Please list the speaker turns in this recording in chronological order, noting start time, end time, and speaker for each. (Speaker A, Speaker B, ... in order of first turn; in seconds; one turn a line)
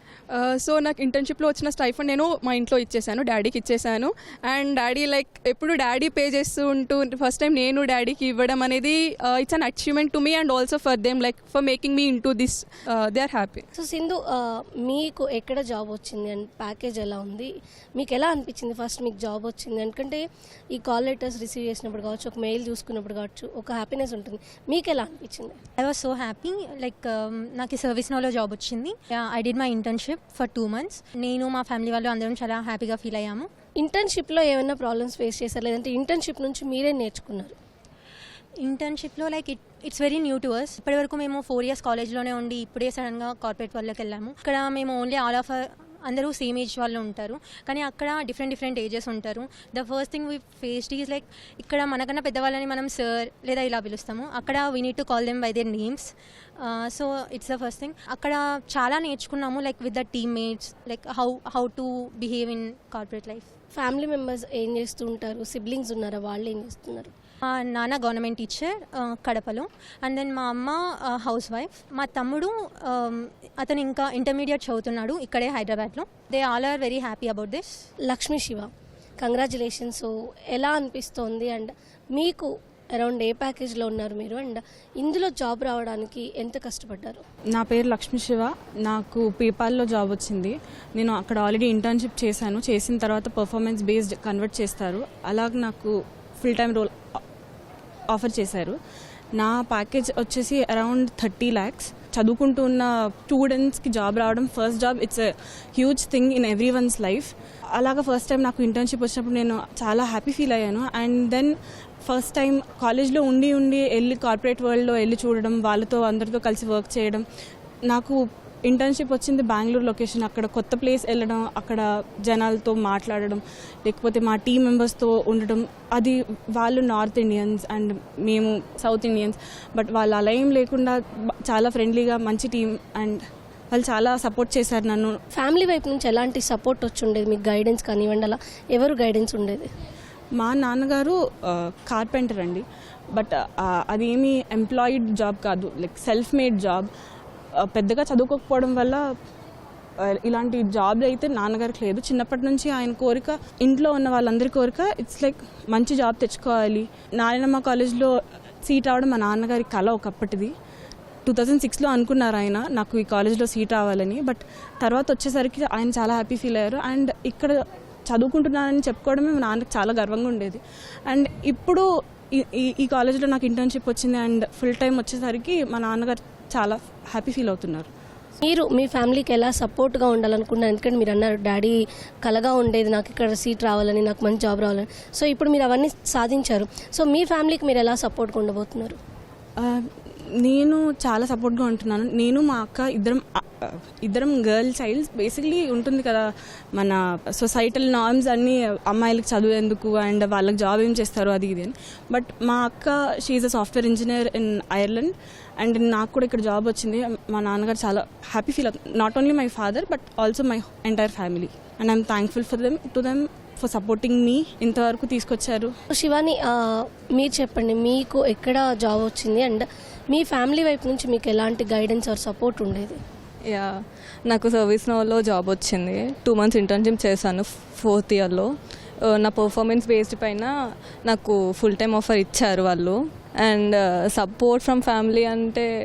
Speaker A: 0.3-13.6
Speaker B: 13.7-25.6
Speaker C: 25.8-33.5
Speaker B: 33.8-37.5
Speaker C: 38.6-63.5
Speaker B: 63.7-67.1
Speaker C: 67.5-77.8
Speaker B: 78.0-87.2
Speaker D: 87.5-96.9
Speaker D: 98.1-98.8
Speaker D: 99.4-117.2
Speaker D: 117.9-135.2
Speaker B: 135.3-139.7
Speaker D: 140.4-146.9
Speaker D: 147.6-149.0
Speaker D: 150.0-158.1
Speaker D: 158.6-160.5
Speaker D: 161.2-167.6
Speaker D: 168.1-177.9
Speaker B: 178.4-188.9
Speaker D: 189.6-189.8
Speaker D: 190.4-215.7
Speaker B: 215.9-223.0
Speaker E: 224.3-228.5
Speaker E: 229.1-230.5
Speaker E: 231.1-235.7